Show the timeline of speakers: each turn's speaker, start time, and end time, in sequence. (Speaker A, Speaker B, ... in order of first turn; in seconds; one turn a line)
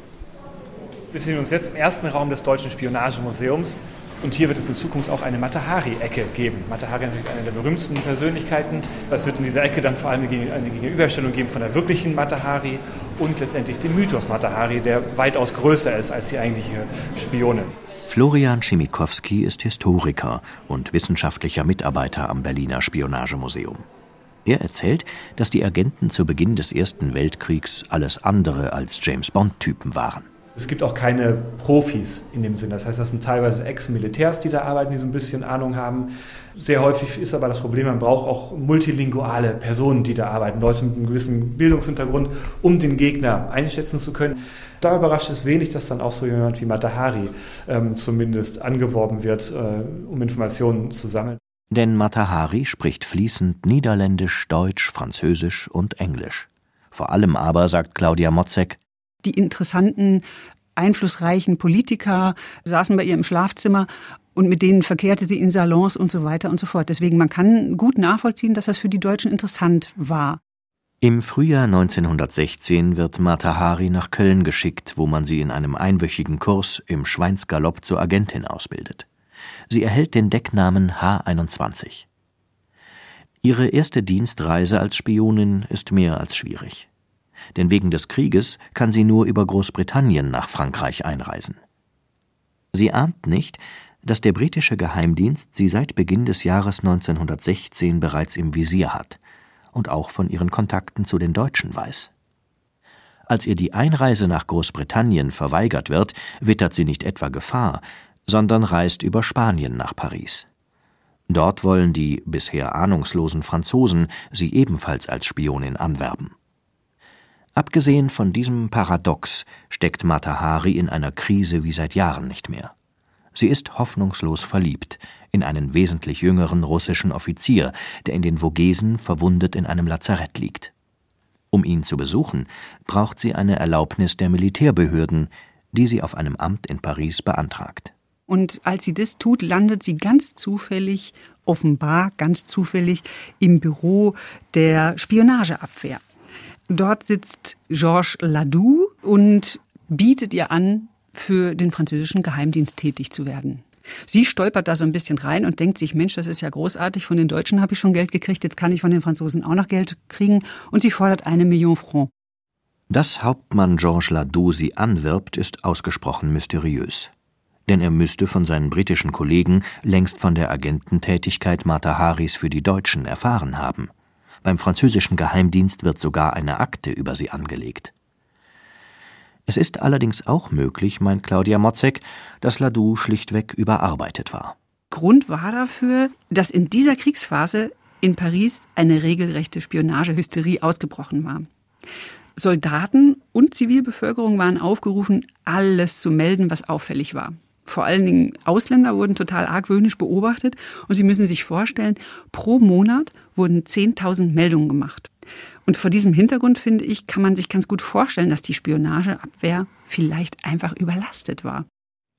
Speaker A: 1.1-17.7
Speaker B: 18.1-23.9
Speaker B: 24.4-30.3
Speaker A: 30.5-51.4
Speaker B: 51.7-58.8
Speaker C: 59.2-60.2
Speaker C: 60.8-70.4
Speaker B: 71.0-79.1
Speaker B: 79.7-82.1
Speaker B: 83.4-86.9
Speaker B: 87.5-91.6
Speaker B: 92.7-99.2
Speaker B: 99.7-102.1
Speaker B: 103.3-110.5
Speaker B: 111.3-116.3
Speaker B: 117.5-122.7
Speaker B: 123.3-130.7
Speaker B: 131.5-137.9
Speaker C: 138.3-146.0
Speaker C: 146.7-162.1
Speaker B: 162.9-167.1
Speaker B: 167.7-173.9
Speaker B: 174.4-177.9
Speaker B: 179.5-184.6
Speaker C: 184.9-191.5
Speaker C: 192.3-205.1
Speaker C: 205.7-211.7